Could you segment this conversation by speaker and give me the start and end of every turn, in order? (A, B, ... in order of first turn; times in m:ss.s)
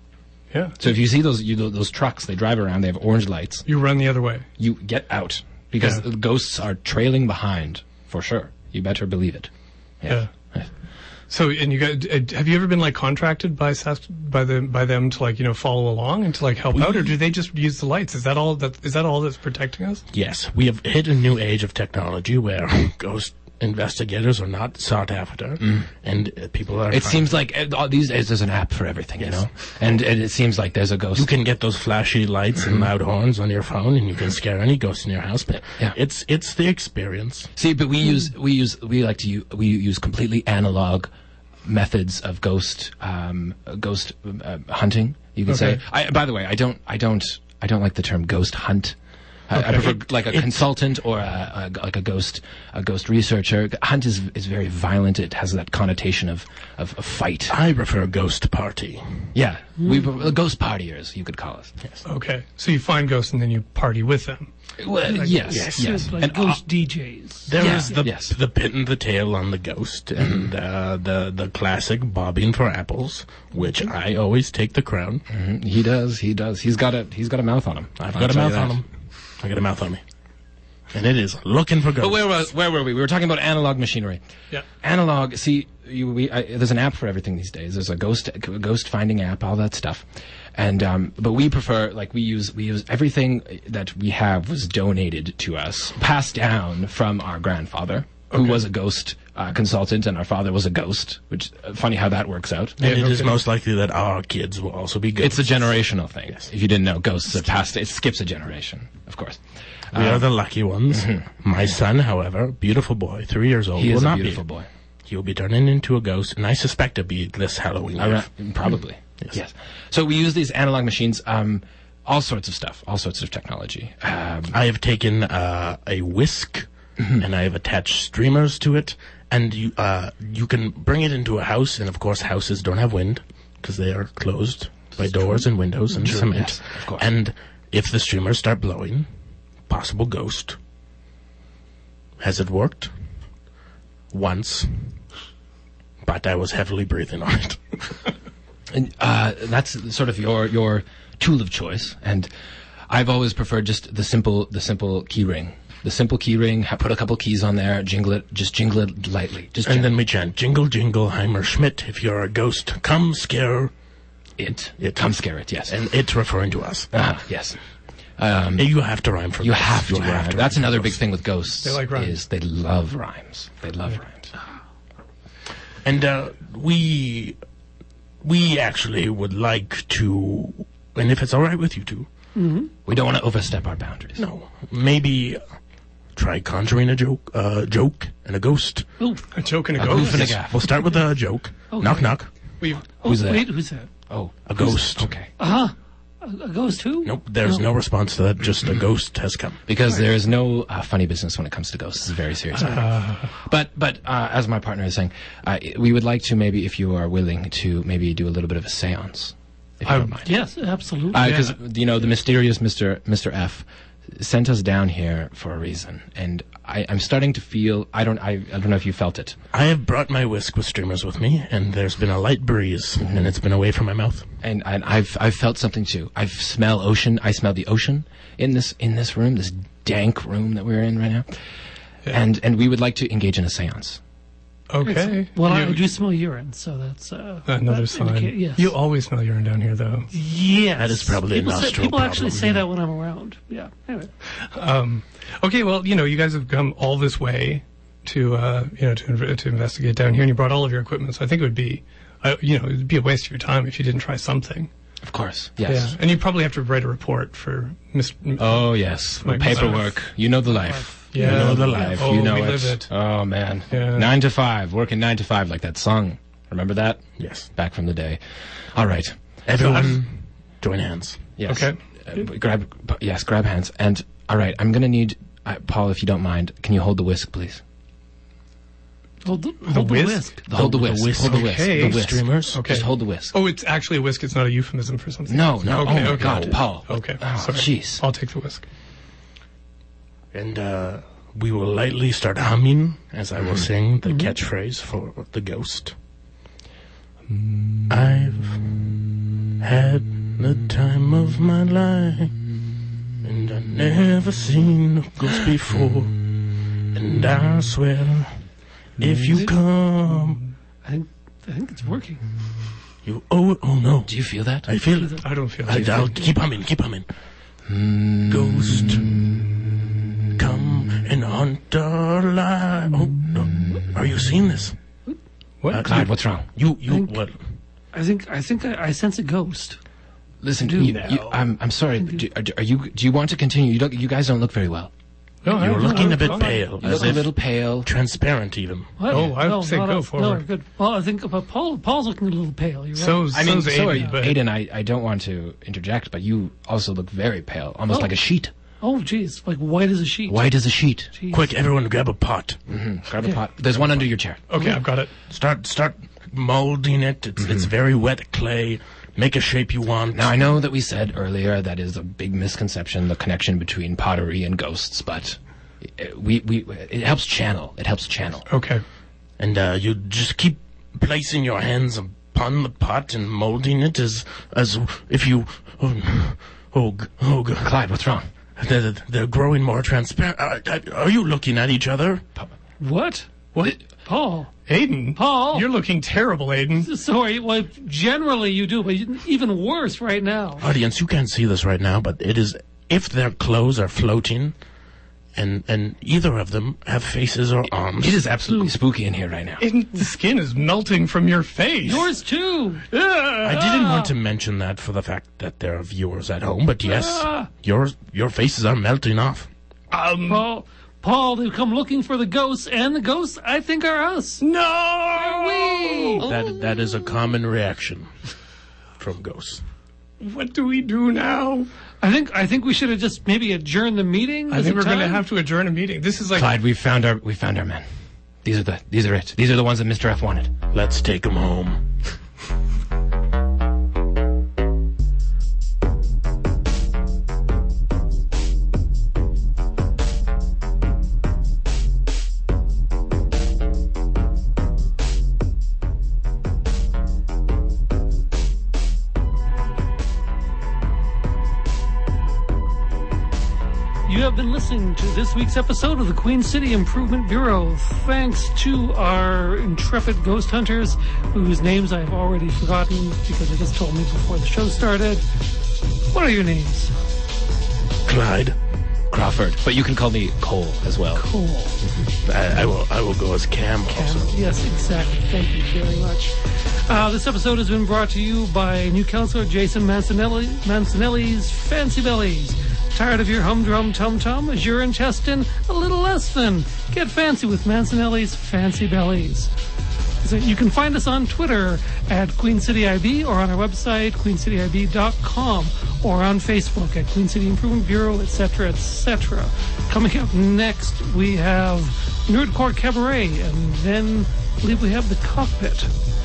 0:00.5-0:00.8 A
0:00.8-0:03.6 B
0:03.6-0:04.4 A
0:04.6-0:09.5 B
0:10.0-0:10.6 B
0:11.3-0:20.0 A
0:16.7-0:17.2 C
0:20.1-0:27.4 C
0:26.9-0:31.3 B
0:29.2-0:29.4 C
0:31.1-0:37.5 C
0:37.6-0:41.1 B
0:41.6-0:49.0 B
0:45.5-0:45.8 A
0:49.5-0:57.5 B
0:49.5-0:49.8 A
0:49.7-0:50.6 C
0:57.5-0:59.3 C
0:59.3-1:01.7 B
1:02.0-1:04.5 A
1:04.8-1:06.6 B
1:05.1-1:08.0 D
1:05.4-1:06.1 C
1:07.4-1:15.2 C
1:07.6-1:08.3 B
1:15.3-1:18.8 B
1:18.0-1:18.9 C
1:19.4-1:20.0 C
1:20.9-1:22.4 C
1:22.0-1:24.2 B
1:24.8-1:42.8 B
1:38.3-1:38.6 A
1:42.8-1:45.8 C
1:42.8-1:43.4 A
1:45.2-1:50.2 B
1:49.9-1:54.4 C
1:50.9-1:51.3 B
1:53.8-1:54.7 B
1:55.0-1:58.3 C
1:58.0-2:04.5 B
2:04.5-2:19.1 C
2:15.0-2:15.4 B
2:16.0-2:17.0 B
2:19.7-2:20.6 C
2:22.2-2:22.9 C
2:24.1-2:24.9 C
2:26.0-2:27.9 C
2:28.7-2:32.3 B
2:32.9-2:40.0 B
2:39.6-2:43.7 C
2:44.4-2:45.7 B
2:44.8-2:46.9 C
2:46.9-2:47.6 B
2:48.2-2:48.7 B
2:48.6-2:51.0 C
2:49.4-2:54.3 B
2:51.6-2:52.2 A
2:55.8-2:57.4 C
2:58.2-3:02.1 C
3:02.3-3:02.7 D
3:02.8-3:04.2 B
3:04.2-3:05.4 C
3:06.1-3:08.9 C
3:09.0-3:09.3 D
3:09.3-3:10.4 A
3:09.8-3:12.3 C
3:09.8-3:10.6 B
3:11.7-3:12.2 D
3:12.6-3:12.8 A
3:13.0-3:15.3 B
3:13.0-3:13.9 D
3:14.4-3:15.1 C
3:15.4-3:17.6 D
3:17.0-3:19.6 C
3:19.7-3:30.4 B
3:22.6-3:23.3 A
3:29.8-3:30.2 A
3:30.2-3:31.3 D
3:31.1-3:39.4 B
3:31.1-3:31.6 A
3:39.5-3:44.3 C
3:43.0-3:43.3 B
3:44.4-3:51.3 B
3:52.1-3:54.0 B
3:54.7-3:55.8 A
3:54.8-3:58.7 D
3:57.5-4:00.1 A
4:00.1-4:04.1 D
4:00.7-4:02.6 C
4:04.3-4:14.7 A
4:15.0-4:16.0 B
4:15.6-4:20.0 A
4:18.4-4:28.2 B
4:20.5-4:21.5 D
4:21.1-4:22.9 A
4:21.2-4:22.2 C
4:23.7-4:24.1 A
4:27.2-4:27.5 C
4:28.7-4:29.1 B
4:29.4-4:31.3 C
4:29.6-4:30.0 A
4:31.4-4:37.6 B
4:31.5-4:31.8 A
4:39.2-4:40.4 D
4:39.7-4:40.3 A
4:40.5-4:43.3 B
4:40.5-4:42.7 C
4:41.2-4:48.7 A
4:45.3-4:48.0 B
4:45.6-4:46.6 C
4:50.3-4:55.9 C
4:54.0-4:54.4 D
4:57.9-4:58.8 C
4:59.6-5:02.4 C
5:03.2-5:06.2 C
5:06.9-5:08.4 C
5:09.0-5:10.4 C
5:10.8-5:12.3 D
5:13.0-5:14.1 C
5:14.0-5:14.7 B
5:14.6-5:17.1 C
5:14.9-5:16.3 D
5:15.2-5:16.2 A
5:17.7-5:19.4 B
5:18.3-5:19.2 C
5:20.4-5:24.8 C
5:25.6-5:26.1 A
5:25.7-5:27.4 C
5:25.8-5:26.5 B
5:26.9-5:27.1 D
5:27.9-5:29.8 D
5:30.4-5:34.9 B
5:30.6-5:31.2 D
5:30.8-5:31.2 A
5:31.0-5:31.4 C
5:32.0-5:32.2 D
5:35.4-5:36.6 A
5:35.4-5:37.2 D
5:35.5-5:39.3 C
5:36.8-5:37.9 B
5:39.0-5:44.2 D
5:39.1-5:40.4 A
5:43.0-5:44.4 A
5:43.3-5:48.5 B
5:47.9-5:48.1 D
5:48.8-5:50.5 D
5:50.3-5:51.1 B
5:51.1-5:51.5 D
5:51.3-5:52.6 C
5:52.7-5:54.4 B
5:53.7-5:54.1 C
5:54.5-5:55.1 A
5:55.3-6:00.4 C
5:57.4-5:57.7 B
6:00.1-6:08.5 B
6:08.5-6:08.8 A
6:09.4-6:17.7 C
6:17.6-6:18.2 B
6:18.6-6:22.2 C
6:22.8-6:24.5 D
6:23.5-6:23.8 A
6:24.6-6:26.9 A
6:25.1-6:25.7 D
6:26.8-6:30.7 D
6:30.6-6:34.5 C
6:35.3-6:38.2 C
6:38.0-6:39.6 B
6:39.6-6:42.0 A
6:41.8-6:42.1 C
6:41.8-6:42.8 D
6:42.9-6:43.8 A
6:43.4-6:49.5 C
6:43.5-6:44.1 D
6:46.8-6:47.5 D
6:49.9-6:50.4 A
6:50.3-6:54.4 D
6:54.4-6:56.3 A
6:55.1-6:56.3 D
6:56.2-6:58.1 C
6:59.0-6:59.6 C
7:00.2-7:01.7 A
7:02.0-7:05.2 D
7:04.5-7:06.6 A
7:06.3-7:07.8 B
7:08.4-7:10.5 B
7:10.7-7:11.9 C
7:34.0-7:45.2 D
7:46.1-7:46.9 D
7:48.0-7:48.6 C
7:49.1-7:51.2 B
7:51.1-7:51.8 D
7:52.0-7:54.3 C
7:53.9-7:56.3 D
7:56.8-8:09.5 D
8:10.2-8:25.9 D